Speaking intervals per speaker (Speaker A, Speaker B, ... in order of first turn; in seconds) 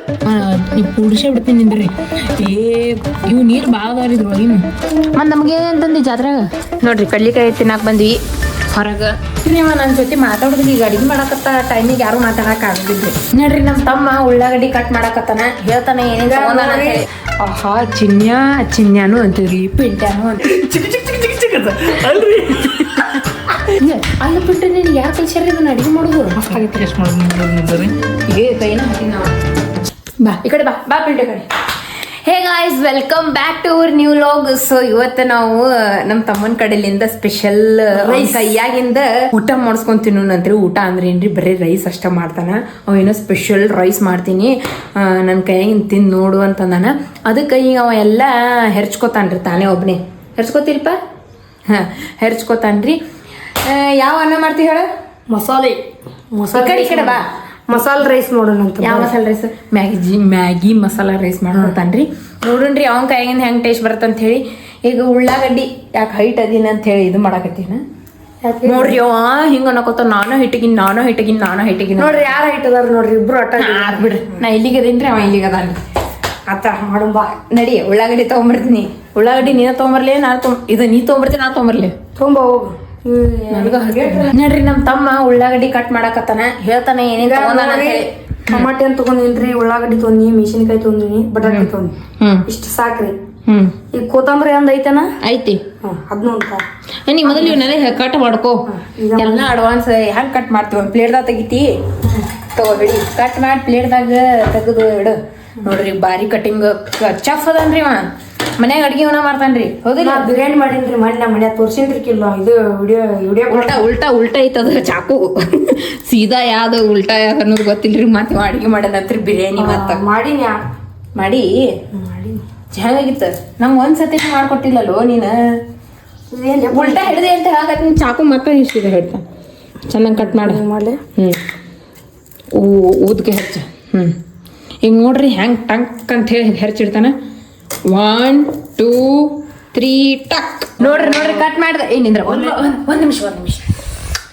Speaker A: 0.2-8.2, 8.7-20.4, 23.8-26.7, 28.3-29.3, 30.2-51.0, 51.7-53.0, 53.6-54.9, 56.5-57.2, 58.8-67.8, 68.7-72.3, 73.6-75.8, 77.5-81.9, 83.5-88.7, 91.4-91.7, 92.2-92.5, 93.5-93.8, 95.2-95.6, 97.1-101.8, 102.5-110.3, 113.5-120.0, 121.2-121.5, 122.7-125.4, 126.7-129.2, 129.9-130.6, 131.2-131.4, 132.5-134.2, 134.8-137.2, 137.9-143.7
Speaker B: 16.2-17.0, 37.9-38.6, 55.3-55.8, 56.4-59.1, 68.4-69.0, 72.0-74.4, 76.5-77.4, 82.2-84.3, 87.2-91.9, 92.5-93.2, 93.9-95.1, 95.8-96.6, 97.2-97.6, 98.7-99.5, 110.0-113.9, 119.6-120.6, 121.9-122.4, 126.3-127.2, 130.2-131.0
Speaker C: 20.4-23.3, 26.4-27.9, 140.8-141.4, 142.3-142.7